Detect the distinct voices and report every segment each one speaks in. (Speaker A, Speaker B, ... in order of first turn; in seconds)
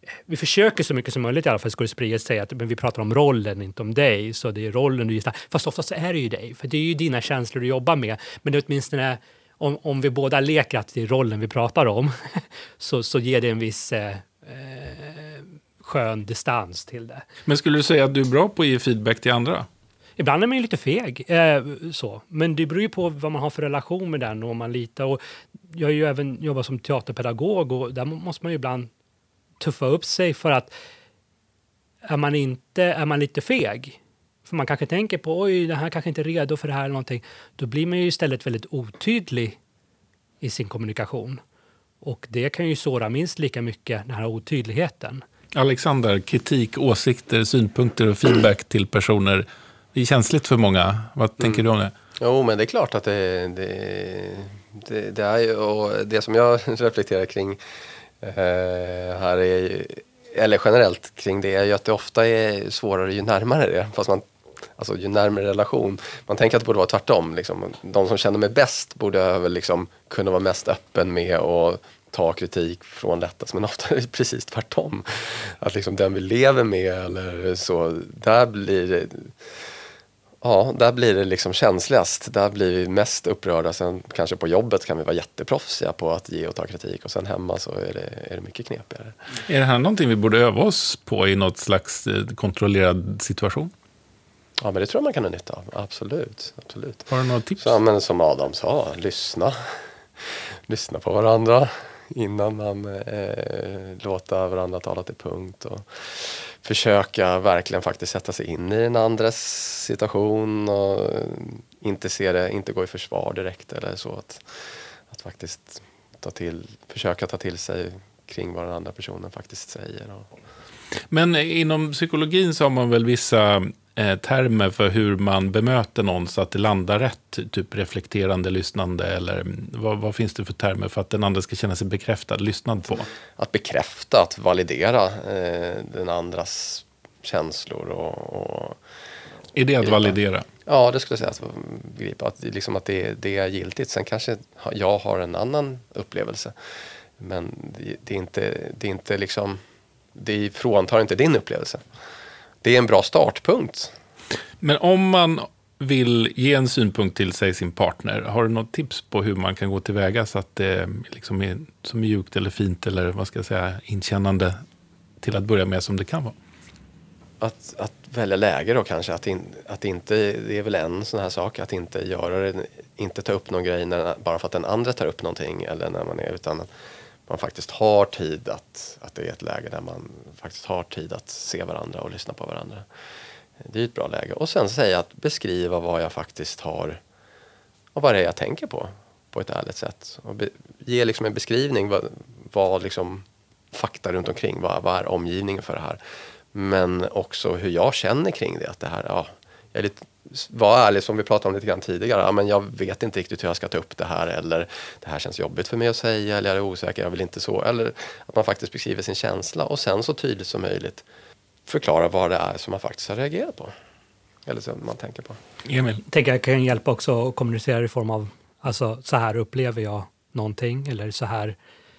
Speaker A: 0.3-17.3, 20.2-25.2, 25.7-28.9, 29.6-30.7, 32.0-39.6, 40.4-41.4, 42.0-45.2, 216.1-221.6
Speaker B: 17.5-19.7, 45.5-51.9, 89.5-93.7, 97.1-97.7, 121.1-133.1, 139.5-140.5, 154.6-164.6, 165.2-166.3, 215.7-216.0
Speaker C: 51.4-51.6, 52.2-57.6, 58.2-79.3, 80.4-89.2, 94.6-99.8, 100.7-114.5, 115.1-120.3, 133.4-138.8, 139.8-146.5, 147.2-149.6, 150.2-151.8, 152.6-153.9, 167.4-176.7, 177.3-182.9, 183.6-187.0, 187.9-196.0, 196.5-211.1, 211.7-213.7, 214.5-215.4